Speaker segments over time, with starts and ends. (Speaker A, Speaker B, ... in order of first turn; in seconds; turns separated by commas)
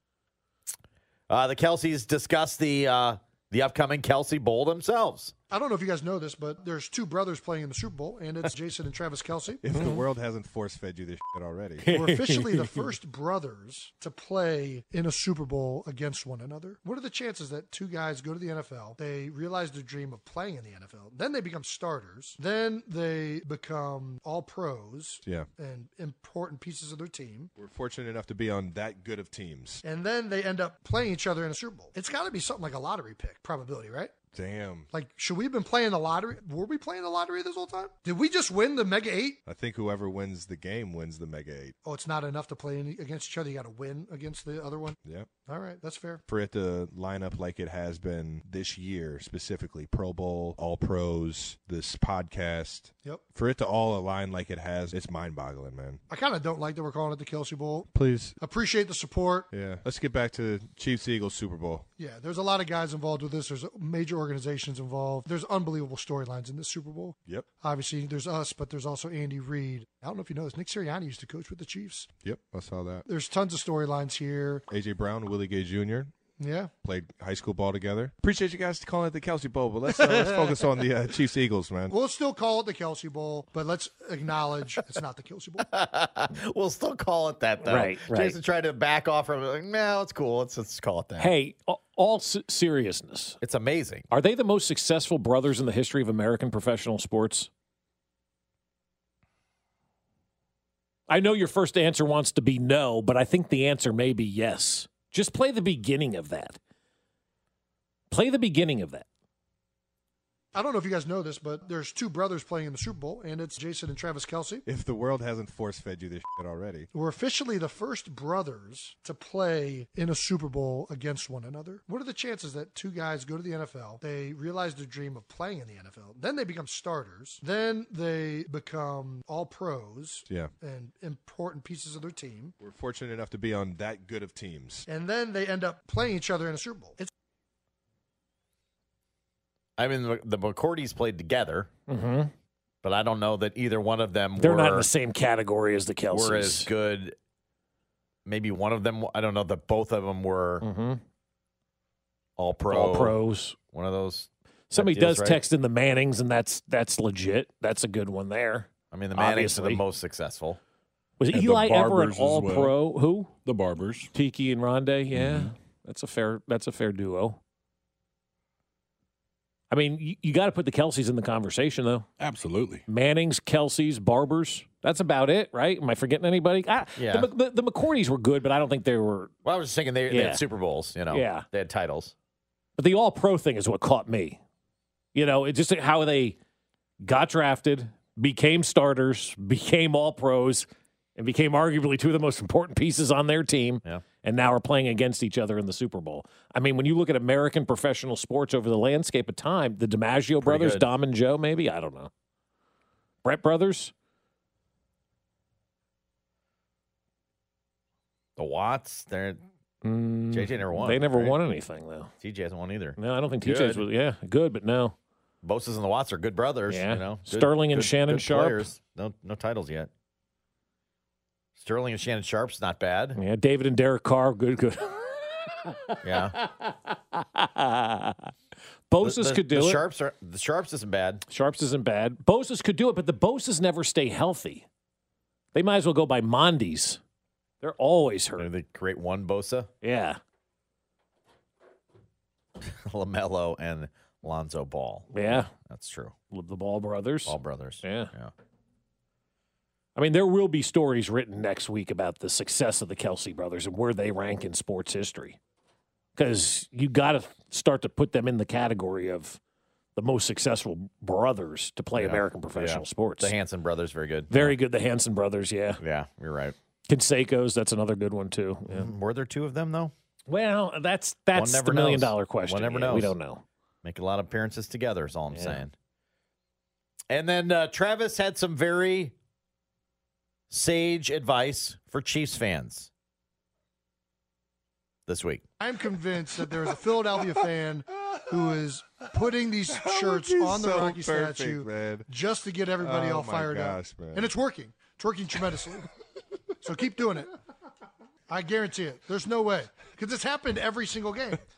Speaker A: 1.3-5.3, Speaker B: 5.5-10.0, Speaker C: 9.6-11.9, Speaker D: 9.7-10.0, Speaker D: 11.8-12.7, Speaker B: 11.9-27.5, Speaker C: 27.6-29.8, Speaker B: 29.8-34.1, Speaker C: 34.3-34.9, Speaker B: 34.9-39.4, Speaker C: 39.5-41.8, Speaker B: 41.8-46.2, Speaker C: 45.0-45.3, Speaker C: 46.3-56.0, Speaker B: 56.1-59.5, Speaker C: 57.9-58.4, Speaker C: 59.5-61.9, Speaker B: 62.0-72.1, Speaker C: 72.2-73.0, Speaker B: 73.1-74.7, Speaker C: 74.7-76.1, Speaker B: 76.3-76.7, Speaker C: 76.8-81.9, Speaker B: 79.9-80.7, Speaker B: 81.9-85.7, Speaker A: 85.7-91.3, Speaker D: 87.6-88.3, Speaker D: 91.2-93.4, Speaker A: 93.4-94.1, Speaker D: 94.1-97.5, Speaker D: 101.1-106.6, Speaker D: 108.1-109.0, Speaker B: 110.5-114.6, Speaker C: 114.7-116.9, Speaker B: 116.9-132.6, Speaker C: 132.6-134.8, Speaker B: 134.9-137.1, Speaker A: 139.8-141.7, Speaker D: 141.9-142.3, Speaker A: 142.8-144.9, Speaker D: 144.4-146.7, Speaker A: 146.1-147.2, Speaker A: 148.2-150.7, Speaker D: 150.6-151.0, Speaker A: 152.4-153.2, Speaker D: 152.7-153.6, Speaker A: 153.7-155.4, Speaker D: 154.7-159.8, Speaker A: 158.9-160.6, Speaker D: 161.2-163.3, Speaker E: 161.3-162.8, Speaker E: 163.4-164.1, Speaker D: 164.1-167.4, Speaker E: 165.1-165.5, Speaker D: 169.7-172.1, Speaker E: 172.2-172.8, Speaker D: 172.9-179.3, Speaker A: 176.9-177.3, Speaker A: 179.4-182.1, Speaker D: 180.1-180.4, Speaker D: 181.1-181.4, Speaker D: 182.8-184.4, Speaker D: 185.1-186.3, Speaker D: 187.0-202.1, Speaker A: 200.4-200.8, Speaker D: 203.2-203.9, Speaker A: 208.4-209.4, Speaker D: 209.8-212.1, Speaker A: 210.3-211.4, Speaker A: 212.2-213.8, Speaker D: 213.0-214.9, Speaker A: 215.4-219.9, Speaker D: 216.7-218.6, Speaker A: 221.6-223.2, Speaker D: 223.2-228.3, Speaker A: 226.0-226.4, Speaker D: 228.9-229.8, Speaker A: 229.0-231.2, Speaker D: 231.3-234.6, Speaker D: 235.5-237.0, Speaker D: 237.6-238.5, Speaker A: 238.4-239.7, Speaker D: 239.8-240.2, Speaker A: 242.6-246.1, Speaker D: 245.1-245.5, Speaker D: 246.3-248.1, Speaker A: 247.3-248.3, Speaker D: 249.9-255.4, Speaker D: 256.1-259.4, Speaker D: 259.9-263.3, Speaker A: 261.9-264.6, Speaker D: 264.3-265.8, Speaker A: 265.8-266.6, Speaker D: 266.9-268.9, Speaker A: 268.7-269.9, Speaker D: 270.3-273.4, Speaker A: 271.3-273.1, Speaker A: 273.8-275.7, Speaker D: 275.3-275.6, Speaker A: 277.1-279.1, Speaker A: 280.5-282.9, Speaker A: 285.1-285.4, Speaker B: 285.6-295.9, Speaker C: 286.4-287.3, Speaker C: 289.7-292.1, Speaker C: 292.8-294.3, Speaker B: 296.6-297.3, Speaker B: 298.3-301.4